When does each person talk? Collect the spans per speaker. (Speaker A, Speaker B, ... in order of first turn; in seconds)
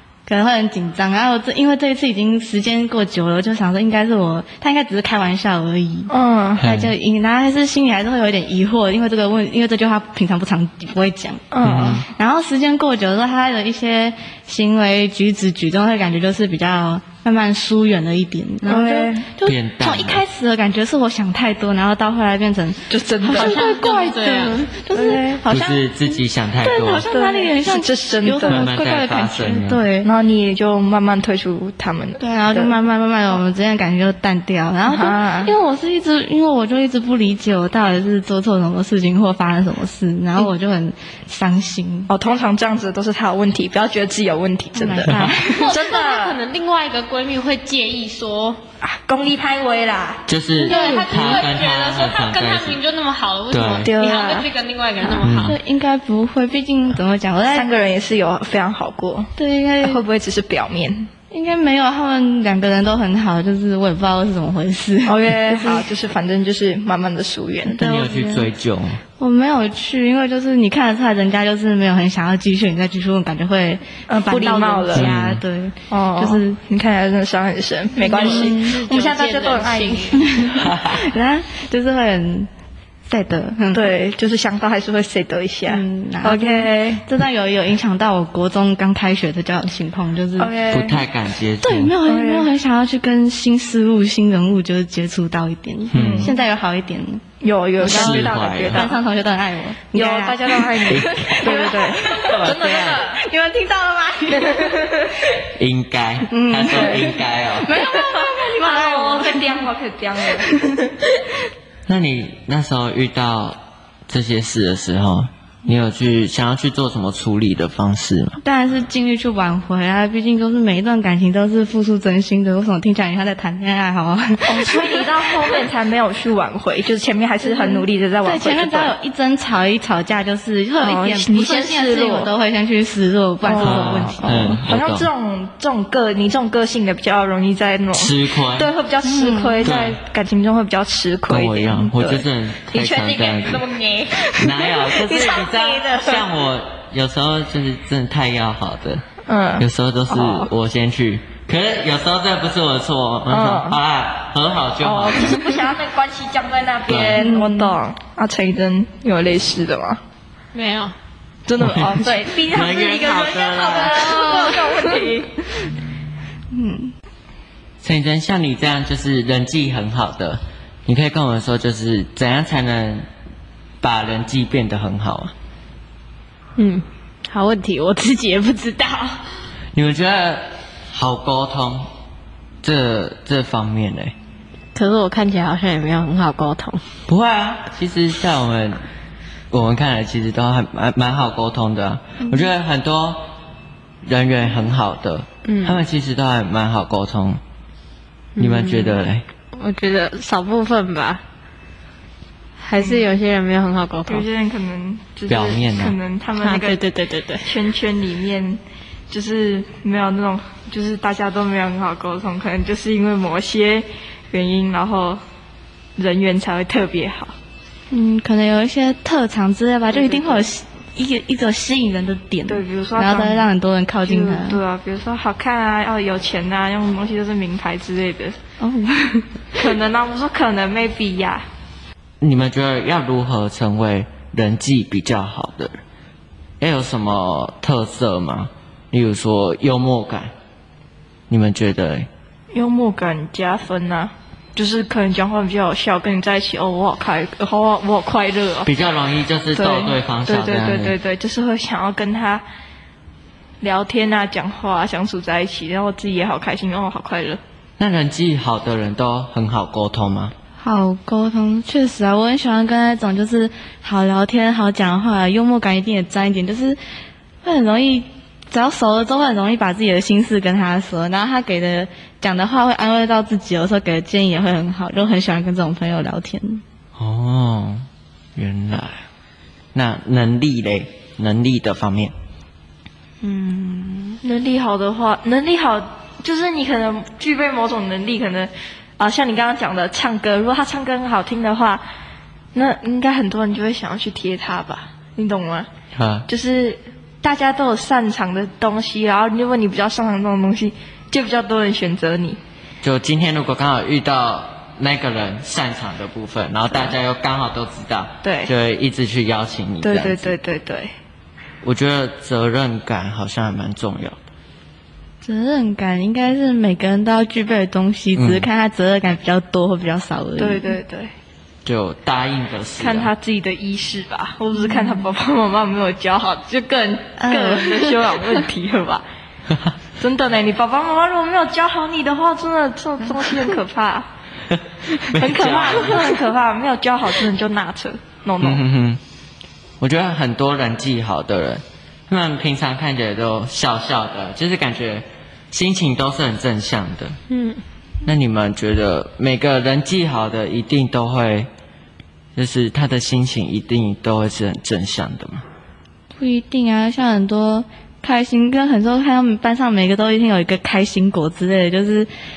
Speaker A: 0.3-11.4, 12.0-30.1, 32.2-42.1, 44.8-45.7, 50.6-51.4, 55.1-57.7, 59.4-60.0, 61.3-65.9, 67.7-68.5, 69.2-76.6, 78.0-78.7, 80.2-82.5, 83.1-83.9, 85.7-90.5, 91.6-97.2, 97.8-105.0, 106.3-109.6, 110.4-110.8, 118.4-125.6, 127.4-134.6, 139.0-139.7, 157.2-157.8, 164.0-165.0, 166.5-166.9, 217.9-224.6, 228.6-229.3, 260.6-266.8, 267.4-276.6, 283.2-284.2, 315.2-320.8, 324.6-325.1, 327.2-328.1, 356.2-362.1
Speaker B: 6.1-6.7, 11.5-12.0, 18.6-19.3, 22.9-23.6, 24.9-25.4, 26.9-28.7, 30.0-32.8, 34.9-35.5, 42.1-46.4, 48.8-50.2, 53.8-54.5, 57.5-61.1, 65.0-67.8, 74.1-75.1, 75.9-80.5, 83.7-87.0, 90.4-91.0, 92.0-92.5, 95.9-96.3, 97.4-99.0, 99.9-103.2, 104.3-105.1, 106.7-107.1, 107.7-110.9, 124.4-128.9, 130.8-132.3, 133.4-146.2, 149.3-150.5, 153.3-153.8, 154.8-160.0, 161.5-165.5, 202.8-203.1, 204.1-206.8, 207.4-215.2, 216.0-217.3, 219.9-220.5, 222.5-223.5, 224.0-228.3, 229.5-231.4, 242.5-248.7, 249.5-252.4, 253.6-257.4, 284.2-291.8, 292.5-295.7, 296.3-302.4, 308.2-308.5, 309.8-310.9, 320.4-321.1, 322.8-329.0, 330.0-334.1, 335.1-338.6
Speaker C: 6.6-6.9, 11.6-12.1, 19.4-20.2, 25.5-27.1, 28.4-29.8, 50.3-52.8, 53.5-53.9, 55.2-55.6, 67.8-69.0, 74.9-75.4, 80.6-81.0, 90.7-91.9, 95.9-96.3, 97.8-98.9, 100.9-103.0, 105.5-107.7, 111.9-118.4, 133.6-135.1, 137.9-138.7, 139.6-140.0, 141.3-143.6, 144.3-149.0, 149.6-155.4, 156.9-157.2, 161.6-164.2, 167.8-173.1, 173.8-175.3, 179.7-181.9, 182.6-184.1, 187.1-188.8, 189.5-193.3, 194.0-197.4, 198.4-199.2, 205.3-206.0, 232.2-235.8, 236.6-240.3, 241.3-242.1, 248.6-250.9, 257.8-260.3, 276.9-279.0, 279.7-282.1, 295.9-296.3, 302.8-310.3, 311.6-314.2, 318.1-318.5, 321.6-323.1, 334.5-336.2, 338.4-339.0, 339.8-347.2, 348.0-351.5, 352.4-355.4
Speaker D: 23.3-24.7, 45.5-48.6, 50.6-55.5, 78.1-80.3, 160.5-160.9, 176.6-179.2, 184.7-186.8, 195.4-195.8, 198.3-199.0, 199.5-201.2, 202.6-204.2, 206.4-207.5, 347.3-347.6